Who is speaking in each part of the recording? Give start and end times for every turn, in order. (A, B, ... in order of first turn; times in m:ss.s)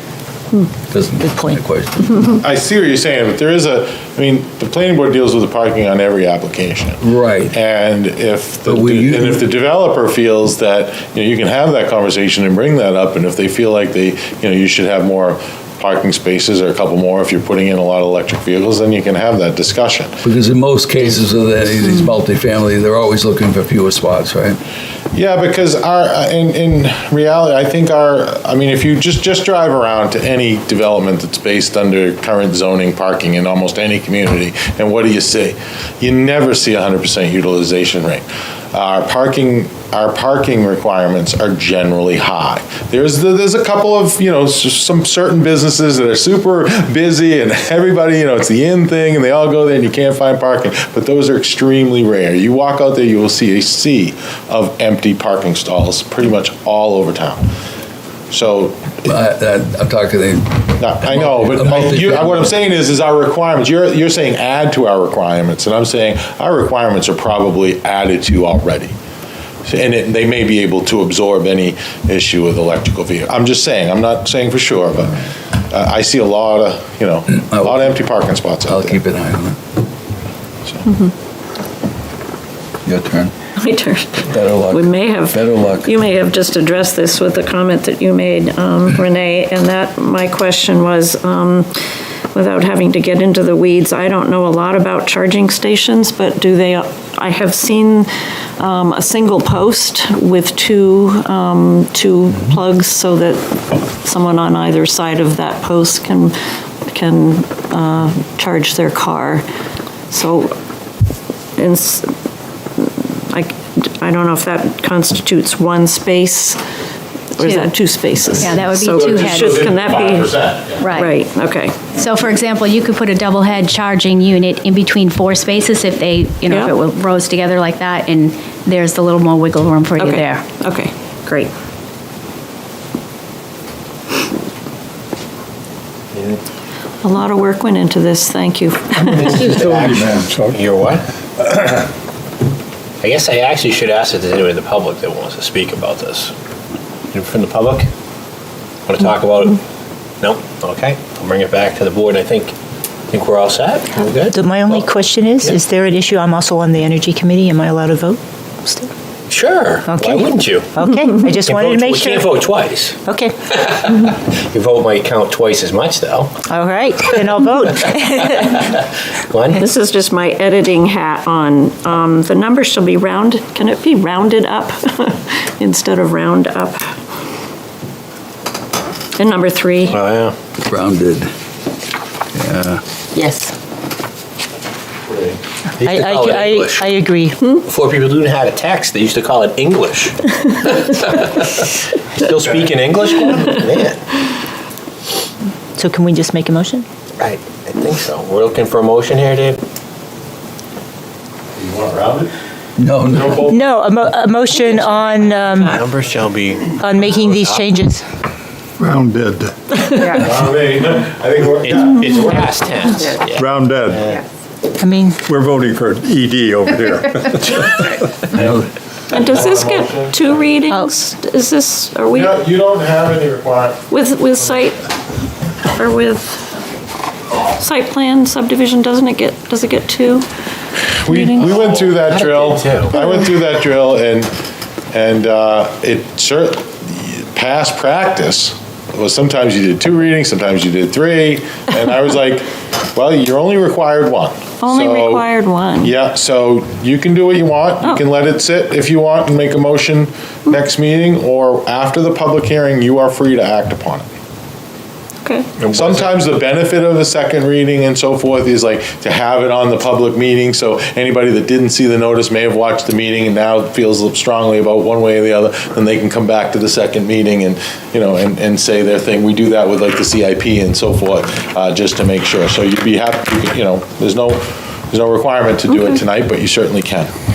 0:00.9-0:02.2 A
0:01.2-0:01.6 B
0:02.2-0:07.0 C
0:07.0-0:07.6 A
0:07.5-0:20.2 C
0:08.7-0:09.4 A
0:20.2-0:24.6 A
0:25.1-0:57.5 C
0:58.3-0:59.0 C
0:59.0-1:02.5 A
1:00.8-1:08.9 C
1:09.7-1:19.0 C
1:17.3-1:18.0 A
1:18.6-1:19.6 A
1:20.9-1:21.1 D
1:22.8-1:23.3 A
1:23.6-1:31.7 D
1:24.2-1:25.9 A
1:32.3-1:46.3 D
1:46.9-1:49.4 D
1:50.1-1:50.5 D
1:51.6-1:52.1 D
1:52.8-1:56.6 D
1:57.4-2:00.3 D
1:57.4-1:57.7 E
1:58.4-1:59.6 E
1:58.9-2:01.0 C
2:00.8-2:01.1 E
2:00.9-2:01.8 D
2:01.9-2:10.4 E
2:10.0-2:11.5 D
2:16.1-2:16.4 F
2:17.0-2:19.6 D
2:19.0-2:21.0 F
2:19.4-2:20.6 G
2:23.0-2:26.3 F
2:27.1-2:27.9 F
2:28.9-2:29.6 F
2:30.2-2:32.5 F
2:33.1-2:34.9 F
2:34.3-2:38.9 B
2:39.3-2:40.7 F
2:39.8-2:42.4 B
2:41.4-2:46.4 F
2:43.0-2:43.3 B
2:46.4-2:48.6 B
2:48.3-2:49.6 F
2:49.6-2:56.8 D
2:59.2-3:00.0 D
2:59.9-3:00.3 F
3:00.6-3:01.3 A
3:02.3-3:02.8 A
3:03.1-3:03.5 B
3:05.1-3:05.4 C
3:05.8-3:07.0 F
3:05.8-3:07.4 B
3:07.6-3:14.0 F
3:12.3-3:13.0 C
3:15.8-3:16.8 B
3:17.2-3:19.6 F
3:21.6-3:22.3 C
3:22.8-3:23.4 A
3:23.1-3:23.6 C
3:23.4-3:25.8 B
3:25.6-3:27.7 F
3:26.7-3:28.0 B
3:28.8-3:29.5 G
3:29.8-3:30.2 D
3:30.1-3:32.5 C
3:31.4-3:34.2 F
3:33.3-3:34.0 G
3:34.8-3:35.2 B
3:35.2-3:37.5 G
3:38.3-3:38.7 A
3:39.1-3:42.4 D
3:39.1-3:40.4 C
3:42.1-3:43.8 C
3:43.9-3:44.8 D
3:45.8-3:46.5 D
3:47.6-3:50.2 D
3:51.0-3:54.3 C
3:51.1-3:51.5 D
3:51.4-3:53.0 F
3:54.9-4:05.3 C
4:04.6-4:05.9 D
4:05.8-4:14.1 C
4:15.2-4:15.5 D
4:15.6-4:16.2 F
4:15.7-4:37.1 C